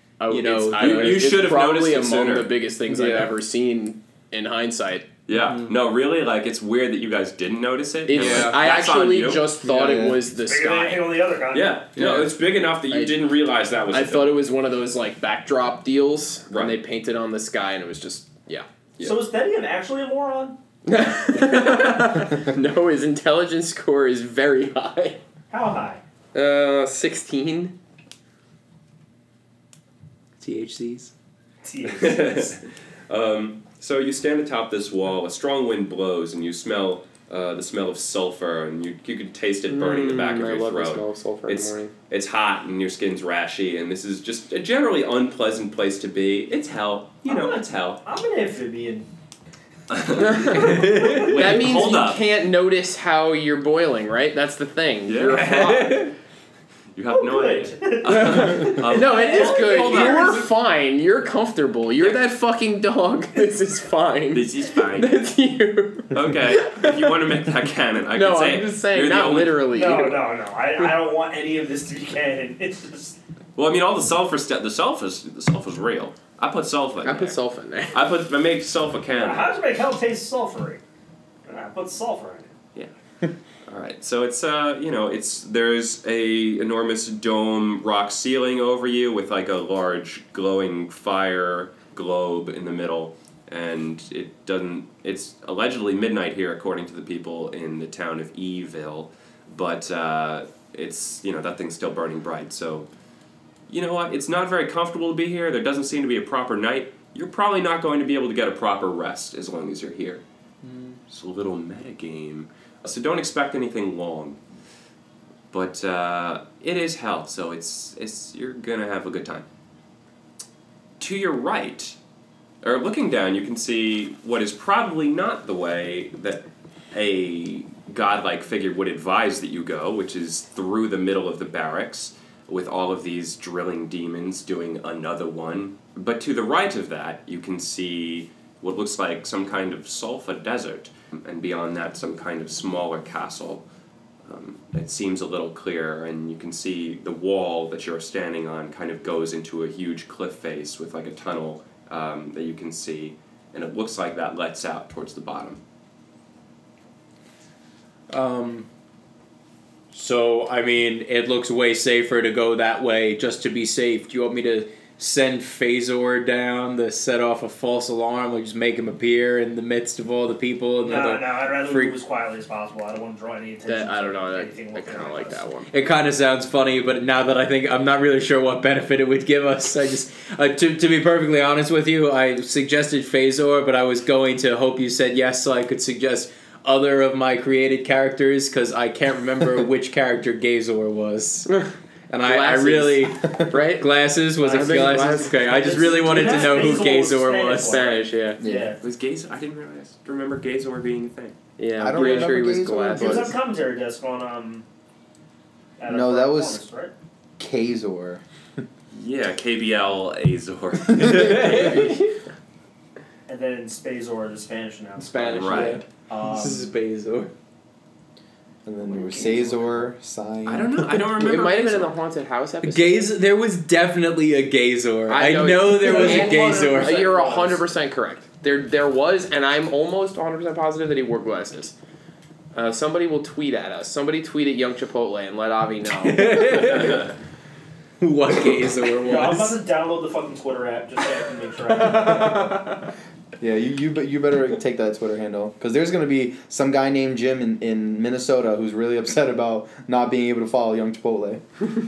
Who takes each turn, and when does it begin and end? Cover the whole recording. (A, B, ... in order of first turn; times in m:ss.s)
0:00.2-0:05.1 A
0:00.3-0:01.2 B
0:00.8-0:02.5 C
0:02.9-0:03.3 B
0:05.3-0:09.5 C
0:08.1-0:11.2 A
0:08.2-0:08.5 B
0:09.6-0:10.2 D
0:10.4-0:11.8 E
0:11.5-0:14.4 C
0:12.0-0:12.3 A
0:12.9-0:13.4 A
0:13.9-0:18.6 A
0:16.5-0:16.8 C
0:19.0-0:20.6 E
0:20.8-0:25.2 A
0:25.5-0:26.0 E
0:26.3-0:27.8 A
0:30.4-0:31.1 B
0:31.6-0:32.6 E
0:31.9-0:48.0 C
0:39.7-0:41.9 A
0:47.2-0:49.1 E
0:49.9-0:52.2 C
0:50.2-0:56.1 A
0:50.6-0:51.3 B
0:50.8-0:51.3 E
0:55.0-0:56.0 C
0:55.3-0:56.1 B
0:56.9-1:00.5 C
0:57.1-1:00.4 E
0:58.2-1:07.2 A
1:04.3-1:05.1 C
1:06.1-1:09.6 C
1:08.1-1:10.2 A
1:09.7-1:13.2 E
1:13.6-1:17.4 C
1:17.0-1:18.0 A
1:17.9-1:19.5 C
1:19.1-1:20.8 E
1:21.4-1:22.5 E
1:23.6-1:42.9 C
1:43.7-1:50.2 C
1:50.6-1:51.0 B
1:51.1-1:54.4 C
1:55.5-1:59.4 C
2:01.0-2:02.0 C
2:02.6-2:23.6 C
2:24.2-2:35.6 C
2:38.1-2:38.7 B
2:39.9-2:52.0 B
2:50.8-2:55.5 E
2:53.6-2:55.7 A
2:55.7-3:11.5 B
3:11.5-3:13.9 A
3:12.1-3:17.8 B
3:14.4-3:18.8 E
3:14.5-3:16.9 A
3:17.6-3:18.4 A
3:18.4-3:18.7 D
3:18.8-3:21.4 C
3:21.6-3:23.3 A
3:21.8-3:23.4 D
3:22.9-3:24.6 E
3:25.8-3:26.9 E
3:25.9-3:26.6 D
3:27.4-3:28.6 D
3:28.9-3:31.9 C
3:31.0-3:32.1 A
3:31.1-3:31.8 B
3:33.3-3:36.7 E
3:35.0-3:37.3 B
3:35.3-3:35.8 C
3:38.6-3:41.0 D
3:40.4-3:41.9 C
3:41.1-3:43.1 A
3:42.6-3:47.0 B
3:45.1-3:51.7 A
3:45.8-3:47.6 E
3:52.5-3:57.0 A
3:56.0-3:57.1 B
3:58.0-3:59.6 B
3:59.0-4:02.6 E
4:03.4-4:11.4 D